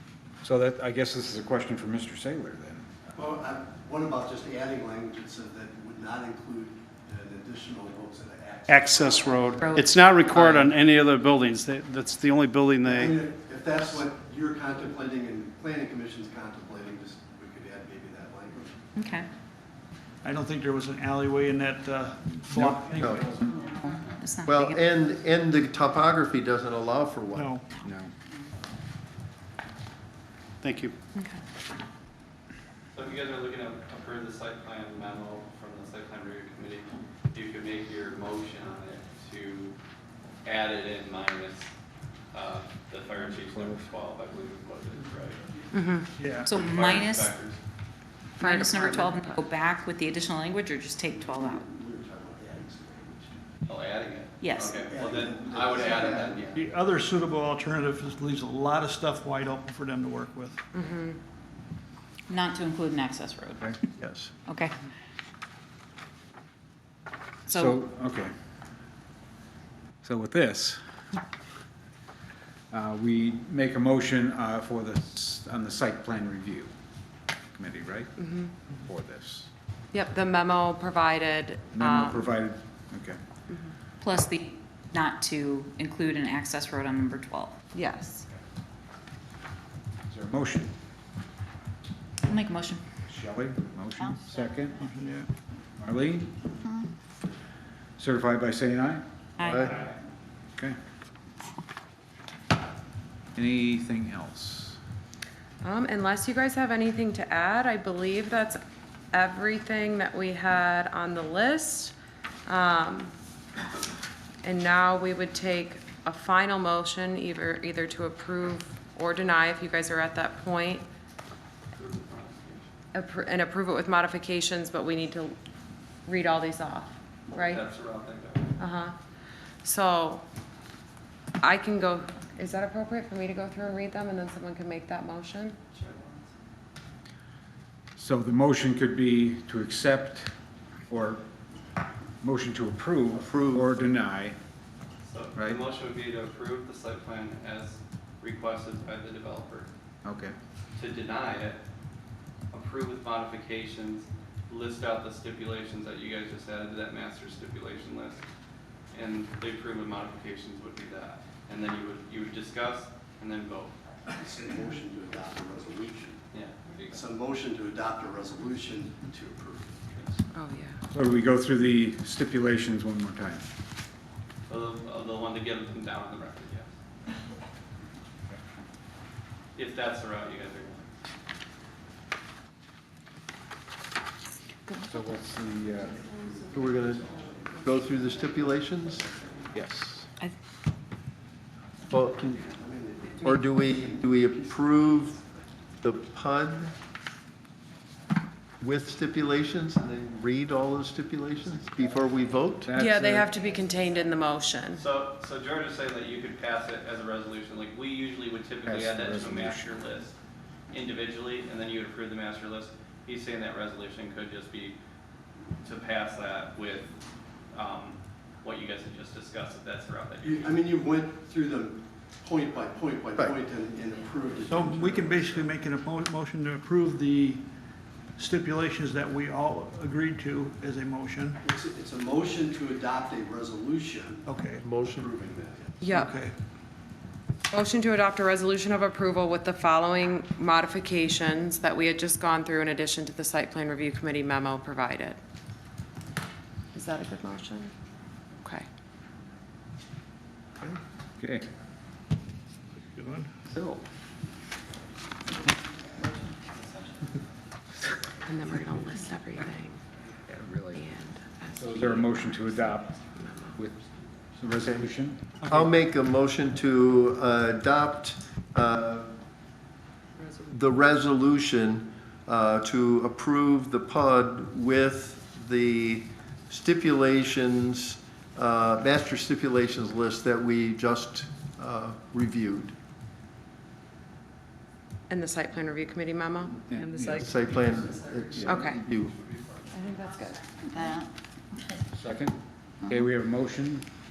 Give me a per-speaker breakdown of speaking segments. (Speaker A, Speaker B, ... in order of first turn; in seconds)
Speaker A: 0.4-2.8, 22.5-22.8, 27.8-28.1, 43.1-43.9, 67.5-68.3, 70.0-70.8, 72.7-76.7, 77.5-78.1, 78.7-79.5, 81.7-83.2, 90.1-90.7, 93.1-94.8, 95.8-96.3, 98.0-99.0, 99.6-100.0, 103.3-104.8, 138.0-140.3, 140.9-141.2, 142.2-144.4, 150.0-150.3, 170.9-173.4, 184.8-186.0, 189.5-190.1, 202.6-203.3, 208.6-209.8, 251.2-251.4, 260.3-260.8, 261.5-263.8, 264.4-265.3, 286.7-287.3, 291.9-293.9
Speaker B: 3.1-10.6, 12.8-18.8, 51.1-53.4, 54.8-56.4, 164.2-166.2, 166.9-170.1, 185.9-189.3, 192.0-195.3, 220.2-225.5, 231.4-234.3, 234.9-235.8
Speaker C: 8.7-13.1, 30.6-30.9
Speaker D: 9.6-10.4, 18.9-19.3, 23.4-24.9, 46.4-47.3, 48.4-51.7, 54.4-54.9, 62.3-63.7, 64.5-64.8, 67.5-67.8, 84.0-87.6, 92.2-92.8, 94.0-94.3, 99.4-99.7, 290.6-291.1
Speaker E: 20.2-23.4, 27.4-27.7, 46.2-46.5, 56.5-60.6, 94.8-95.3, 224.4-227.4, 228.2-231.4, 234.2-234.6, 235.9-236.3, 252.8-253.3, 265.4-265.7
Speaker F: 23.0-23.4, 24.4-27.5, 64.0-64.3, 99.4-99.8, 143.1-143.9, 186.5-189.1, 191.9-192.4, 193.2-195.2, 195.8-196.7, 198.6-202.7, 234.6-235.1, 264.5-264.9, 265.4-269.1, 270.5-282.7, 287.1-289.1
Speaker G: 31.1-31.4, 45.7-46.1, 48.4-49.4, 60.7-61.2, 78.2-78.5, 79.9-82.2, 83.5-83.8, 87.7-88.3, 105.6-108.6, 109.1-111.9, 112.5-113.1, 114.4-120.9, 122.9-125.4, 126.0-127.6, 128.6-128.9, 129.6-130.2, 131.4-135.6, 170.3-170.8, 184.7-185.0, 202.7-204.8, 235.8-236.1, 237.5-245.2, 246.7-247.7, 248.4-248.7, 258.2-259.8, 260.7-263.6, 285.1-287.4, 288.4-288.9, 289.7-290.5
Speaker H: 33.0-39.8, 40.5-41.7, 42.3-45.4, 46.5-47.6, 53.7-56.7, 121.7-122.7, 127.3-128.5, 135.7-136.3, 145.0-149.7, 150.8-151.6, 152.5-158.2, 158.9-163.7, 166.3-167.1, 174.5-176.7, 179.5-180.9, 204.7-210.1, 210.7-214.8, 215.6-216.9, 217.5-220.6, 256.0-256.7